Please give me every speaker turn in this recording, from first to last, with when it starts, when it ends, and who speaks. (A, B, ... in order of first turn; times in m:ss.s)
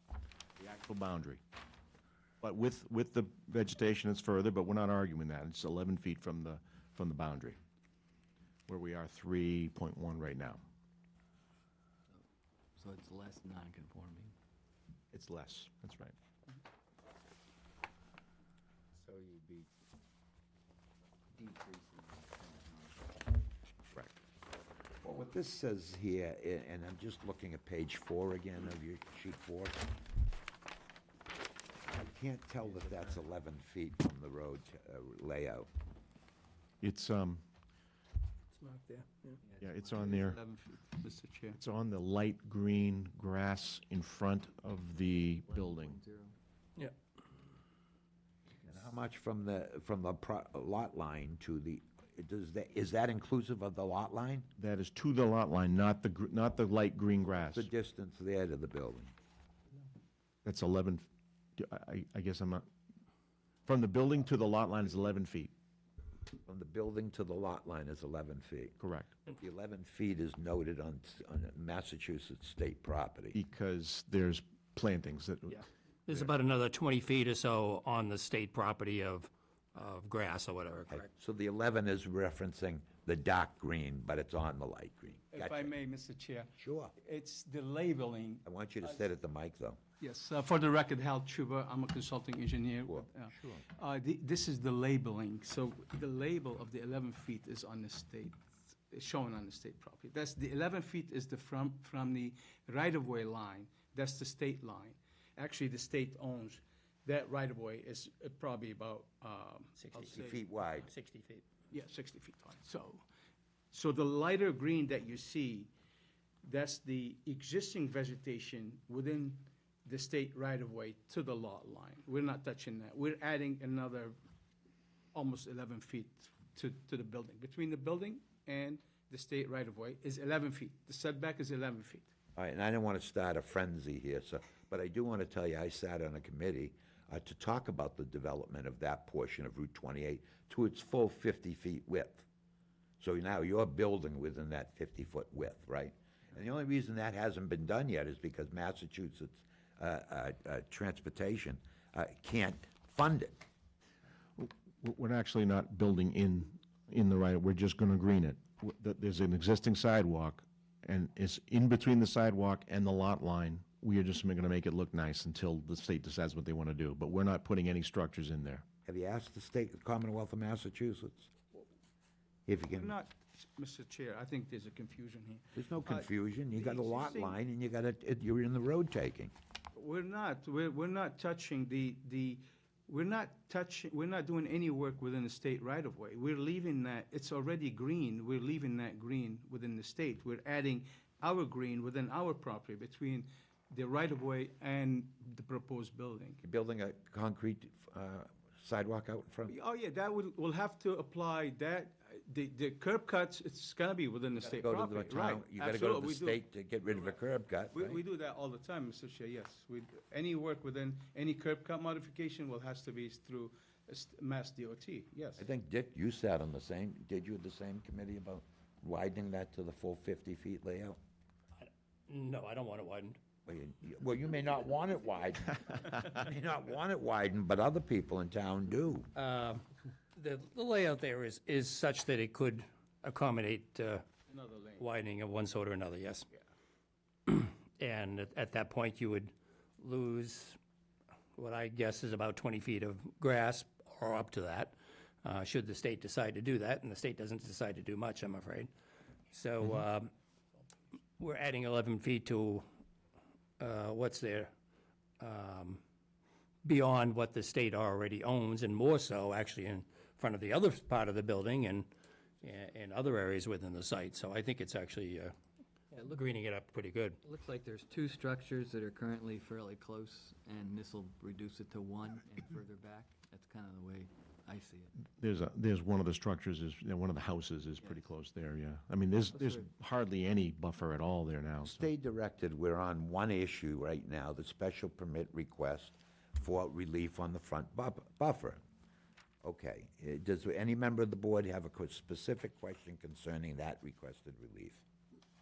0:00.6-0:01.4 A
0:02.4-0:07.6 A
0:08.7-0:10.6 A
0:12.8-0:14.3 B
0:15.1-0:16.1 A
0:19.0-0:19.7 B
0:21.3-0:23.2 B
0:25.0-0:29.9 C
0:31.9-0:35.7 C
0:36.8-0:37.4 A
0:38.6-0:39.4 D
0:39.4-0:40.2 B
0:39.6-0:40.4 A
0:40.1-0:41.6 E
0:41.5-0:46.0 A
0:45.3-0:46.4 B
0:48.6-0:54.5 C
0:54.6-0:57.7 A
0:57.5-0:59.1 C
1:00.4-1:01.0 A
1:01.6-1:02.7 A
1:03.6-1:05.5 A
1:06.4-1:13.4 C
1:08.8-1:09.1 A
1:13.3-1:16.3 A
1:15.5-1:21.1 D
1:20.9-1:25.7 C
1:25.3-1:29.0 E
1:26.6-1:26.9 C
1:28.4-1:29.8 C
1:30.0-1:50.4 E
1:32.8-1:33.6 C
1:49.8-1:50.2 D
1:50.1-1:50.9 C
1:50.8-1:51.5 D
1:51.7-1:53.0 E
1:53.7-1:55.7 E
1:56.4-2:04.2 E
2:05.1-2:12.1 E
2:12.4-2:22.2 C
2:23.0-2:33.4 C
2:34.4-2:48.6 A
2:48.8-2:51.3 C
2:52.5-2:53.0 C
2:52.8-2:57.4 E
2:55.6-2:59.3 C
2:59.7-3:16.4 E
3:16.4-3:19.5 C
3:19.4-3:26.4 E
3:24.4-3:28.0 C
3:27.7-3:35.4 E
3:35.4-3:41.0 C
3:41.6-3:43.2 D
3:43.5-3:49.1 C
3:49.1-3:49.6 D
3:50.2-3:54.1 D
3:54.3-3:54.8 E
3:54.8-3:56.3 D
3:57.3-4:00.6 D
4:01.4-4:08.7 D
4:09.3-4:10.1 D
4:11.2-4:12.6 D
4:13.6-4:14.5 D
4:15.2-4:15.8 D
4:16.6-4:21.9 D
4:22.4-4:25.3 D
4:25.9-4:26.2 B
4:26.0-4:27.2 D
4:27.2-4:34.9 B
4:35.2-4:41.8 A
4:39.3-4:39.7 B
4:41.6-4:48.6 C
4:49.4-4:54.8 C